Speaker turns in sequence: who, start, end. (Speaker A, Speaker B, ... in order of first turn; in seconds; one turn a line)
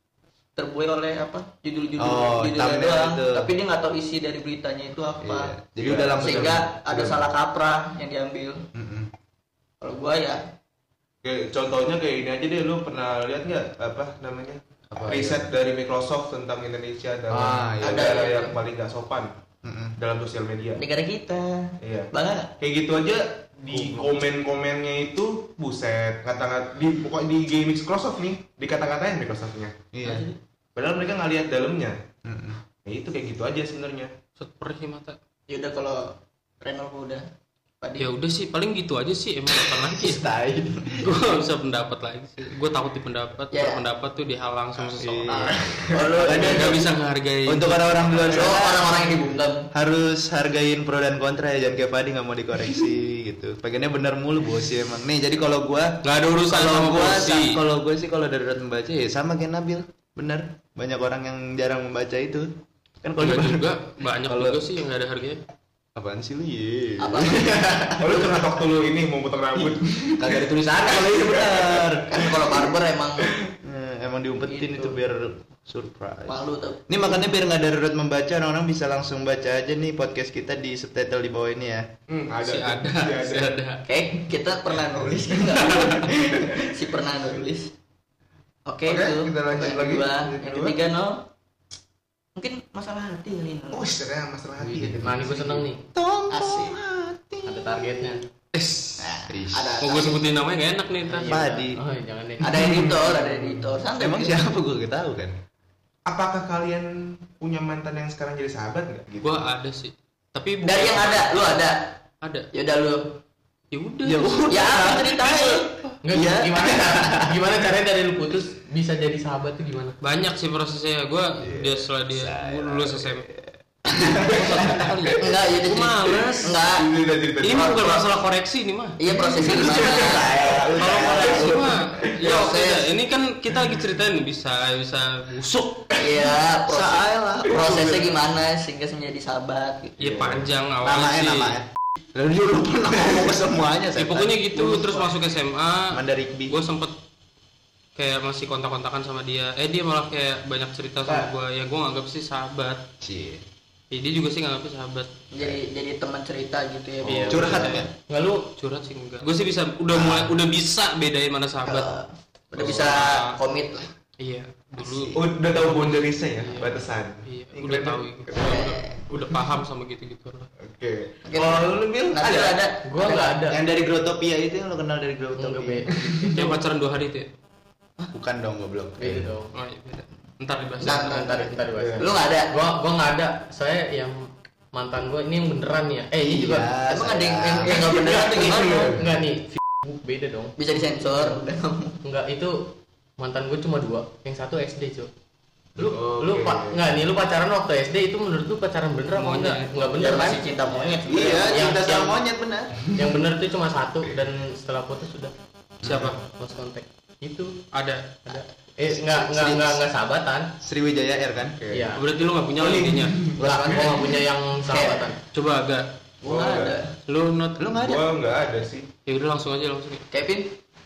Speaker A: 0.6-8.7
Speaker B: 2.0-3.5
Speaker B: 5.2-6.7
Speaker C: 5.8-7.2
Speaker B: 8.8-9.1
Speaker A: 9.8-10.4
Speaker C: 11.2-19.3
Speaker B: 14.9-15.4
Speaker B: 17.3-18.2
Speaker A: 17.8-18.6
Speaker B: 19.6-19.9
Speaker C: 20.0-20.8
Speaker A: 20.8-22.5
Speaker C: 21.8-29.8
Speaker B: 29.9-30.3
Speaker A: 30.0-30.4
Speaker C: 30.8-32.0
Speaker B: 32.2-32.6
Speaker C: 32.8-34.1
Speaker D: 34.4-35.2
Speaker A: 35.5-37.2
Speaker A: 37.8-38.1
Speaker D: 38.0-40.2
Speaker B: 39.9-41.1
Speaker D: 41.0-45.3
Speaker A: 43.5-43.8
Speaker B: 45.0-46.9
Speaker A: 45.3-46.8
Speaker C: 45.5-46.1
Speaker D: 46.2-48.5
Speaker B: 47.5-48.9
Speaker A: 48.3-49.7
Speaker B: 49.7-62.5
Speaker D: 56.0-57.6
Speaker B: 63.0-63.7
Speaker D: 63.2-65.4
Speaker B: 64.3-64.6
Speaker B: 66.0-68.4
Speaker A: 67.0-68.3
Speaker C: 68.0-71.8
Speaker B: 69.6-72.7
Speaker A: 72.1-73.3
Speaker B: 73.6-81.9
Speaker A: 74.5-75.0
Speaker A: 76.3-76.9
Speaker C: 82.1-83.5
Speaker D: 82.4-83.8
Speaker A: 83.8-87.7
Speaker C: 85.5-86.7
Speaker A: 88.7-91.2
Speaker C: 88.9-90.8
Speaker A: 92.4-94.0
Speaker C: 93.7-95.7
Speaker E: 94.6-95.8
Speaker B: 95.9-98.1
Speaker A: 96.3-96.8
Speaker E: 97.5-98.2
Speaker D: 98.5-99.1
Speaker A: 99.0-100.3
Speaker B: 99.3-100.0
Speaker D: 99.8-101.5
Speaker E: 101.1-102.7
Speaker B: 101.2-101.8
Speaker A: 102.4-104.4
Speaker C: 102.6-103.5
Speaker B: 104.0-105.3
Speaker C: 106.1-109.4
Speaker D: 109.2-111.6
Speaker A: 110.6-112.0
Speaker D: 112.2-112.5
Speaker A: 112.5-113.2
Speaker D: 113.7-114.5
Speaker B: 114.0-117.4
Speaker A: 114.5-115.7
Speaker E: 116.0-120.0
Speaker D: 120.0-123.3
Speaker B: 121.4-125.5
Speaker D: 124.0-126.6
Speaker A: 125.2-126.9
Speaker C: 126.6-128.0
Speaker D: 127.4-129.0
Speaker A: 127.7-128.0
Speaker A: 129.0-131.7
Speaker B: 129.2-131.8
Speaker D: 130.8-135.9
Speaker A: 132.2-132.9
Speaker A: 136.0-140.0
Speaker B: 136.7-138.2
Speaker D: 140.0-141.6
Speaker C: 140.0-140.5
Speaker B: 140.8-144.7
Speaker D: 144.0-146.9
Speaker B: 145.9-146.6
Speaker D: 148.0-152.8
Speaker B: 153.0-153.4
Speaker D: 153.9-155.1
Speaker A: 155.3-157.8
Speaker B: 155.4-155.6
Speaker D: 157.0-157.9
Speaker B: 157.2-157.9
Speaker E: 158.1-158.5
Speaker D: 158.6-162.0
Speaker B: 159.9-160.3
Speaker A: 161.7-163.9
Speaker D: 162.6-163.2
Speaker B: 162.6-163.4
Speaker D: 164.2-170.5
Speaker B: 164.8-165.2
Speaker C: 165.1-168.1
Speaker A: 168.4-169.0
Speaker C: 170.6-172.6
Speaker A: 171.2-173.4
Speaker E: 172.8-173.6
Speaker B: 173.5-175.9
Speaker E: 175.4-176.6
Speaker C: 175.9-176.4
Speaker D: 176.2-177.3
Speaker B: 178.1-179.3
Speaker E: 179.0-179.5
Speaker D: 179.5-181.4
Speaker A: 180.8-182.5
Speaker E: 180.9-186.8
Speaker C: 181.8-182.1
Speaker B: 186.2-189.0
Speaker A: 186.9-188.9
Speaker C: 188.1-189.0
Speaker E: 188.9-191.4
Speaker A: 190.6-192.0
Speaker E: 192.0-195.1
Speaker E: 195.8-201.9
Speaker C: 195.8-196.9
Speaker D: 199.1-200.4
Speaker A: 200.0-202.2
Speaker B: 201.1-202.8
Speaker E: 202.9-205.3
Speaker B: 205.8-206.1
Speaker C: 205.8-206.2
Speaker E: 205.9-207.6
Speaker D: 207.7-208.2
Speaker E: 208.3-210.5
Speaker B: 208.9-209.8
Speaker B: 210.6-211.6
Speaker C: 211.5-212.0
Speaker E: 211.7-212.0
Speaker D: 212.0-213.2
Speaker C: 212.6-213.4
Speaker B: 213.4-214.0
Speaker E: 213.4-215.2
Speaker A: 214.7-215.1
Speaker D: 215.3-215.9
Speaker A: 216.2-216.9
Speaker C: 216.2-216.8
Speaker D: 217.1-217.8
Speaker B: 217.6-218.0
Speaker C: 217.8-218.9
Speaker D: 219.1-220.0
Speaker A: 220.1-220.6